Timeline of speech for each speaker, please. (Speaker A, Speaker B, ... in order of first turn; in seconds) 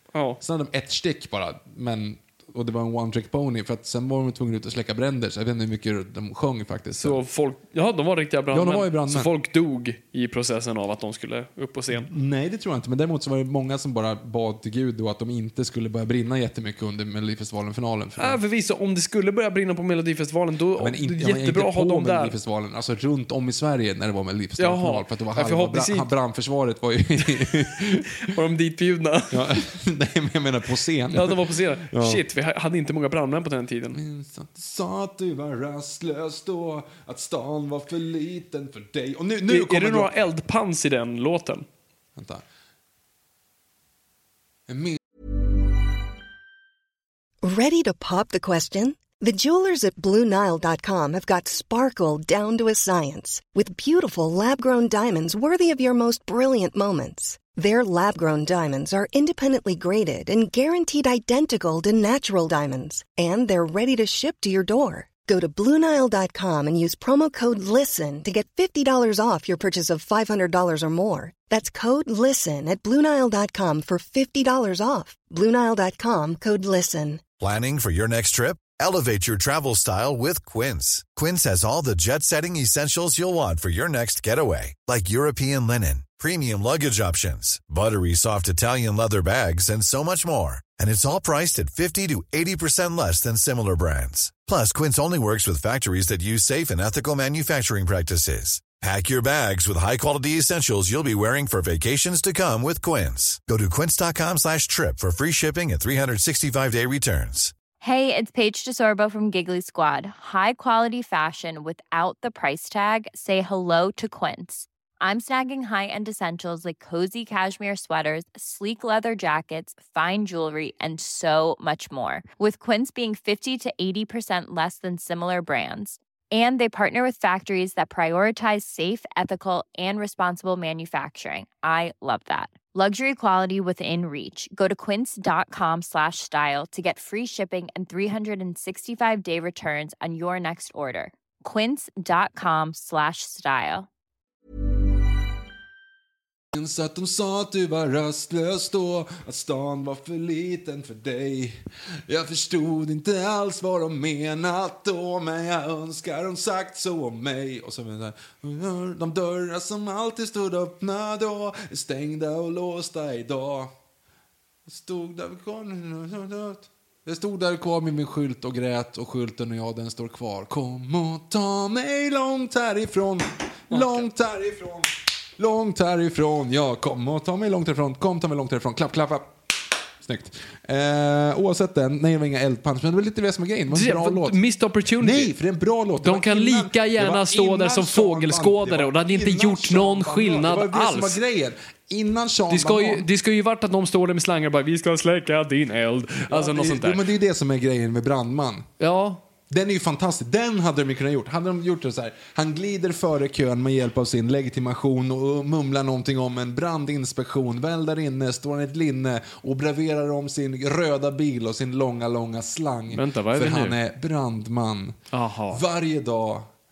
Speaker A: 0.1-0.4, 7.0-12.1, 18.2-22.4, 24.6-26.1, 28.1-29.5, 31.1-34.0, 39.5-41.7, 173.7-174.1, 183.7-185.3, 186.0-191.2, 192.5-197.0, 198.8-199.2, 212.9-213.8, 215.1-215.6
Speaker B: 0.4-7.2, 8.5-9.3, 11.9-18.4, 20.8-28.2, 29.3-32.2, 33.9-40.1, 42.2-42.4, 44.7-45.0, 146.5-163.7, 164.7-179.3, 180.0-184.4, 185.0-193.1, 196.3-198.7, 199.5-215.0, 215.5-216.5
Speaker C: 47.4-77.2
Speaker D: 77.4-107.5
Speaker E: 107.8-143.9